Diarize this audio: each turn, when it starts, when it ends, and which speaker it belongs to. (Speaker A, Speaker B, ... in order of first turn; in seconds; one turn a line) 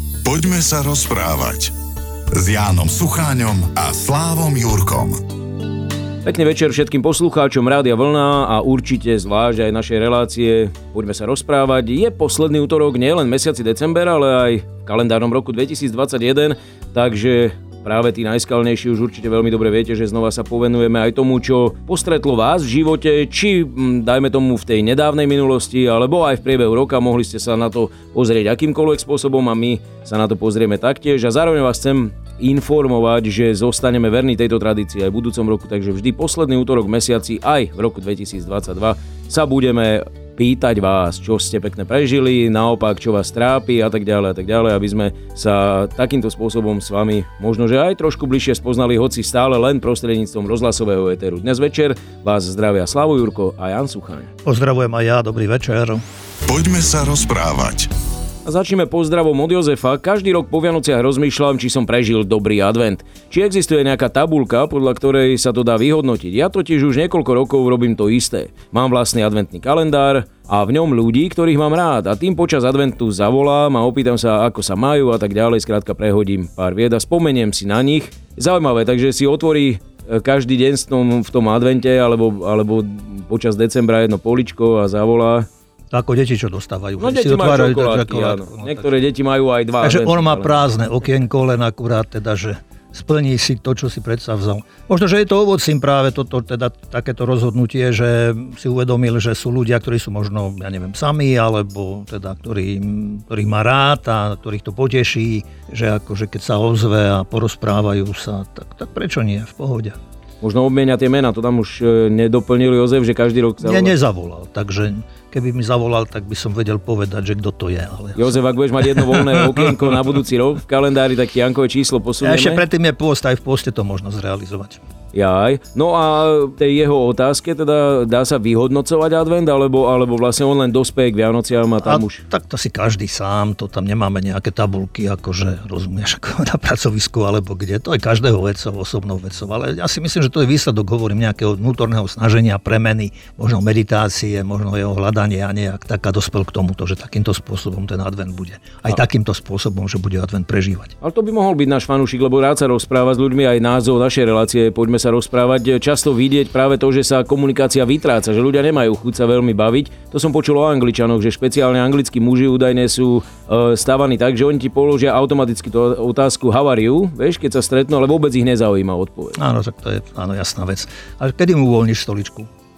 Speaker A: 0.2-1.7
Speaker A: 2.3-5.2
Speaker B: 6.2-54.3
Speaker C: 54.4-56.0
Speaker A: 56.5-57.9
Speaker B: 58.4-85.5
Speaker C: 85.9-88.9
Speaker B: 87.0-90.7
Speaker C: 89.8-110.0
Speaker B: 110.4-113.9
Speaker C: 113.6-119.9
Speaker B: 118.2-122.6
Speaker C: 122.2-124.8
Speaker B: 125.1-132.2
Speaker C: 131.8-150.9
Speaker B: 151.0-169.4
Speaker C: 169.3-172.5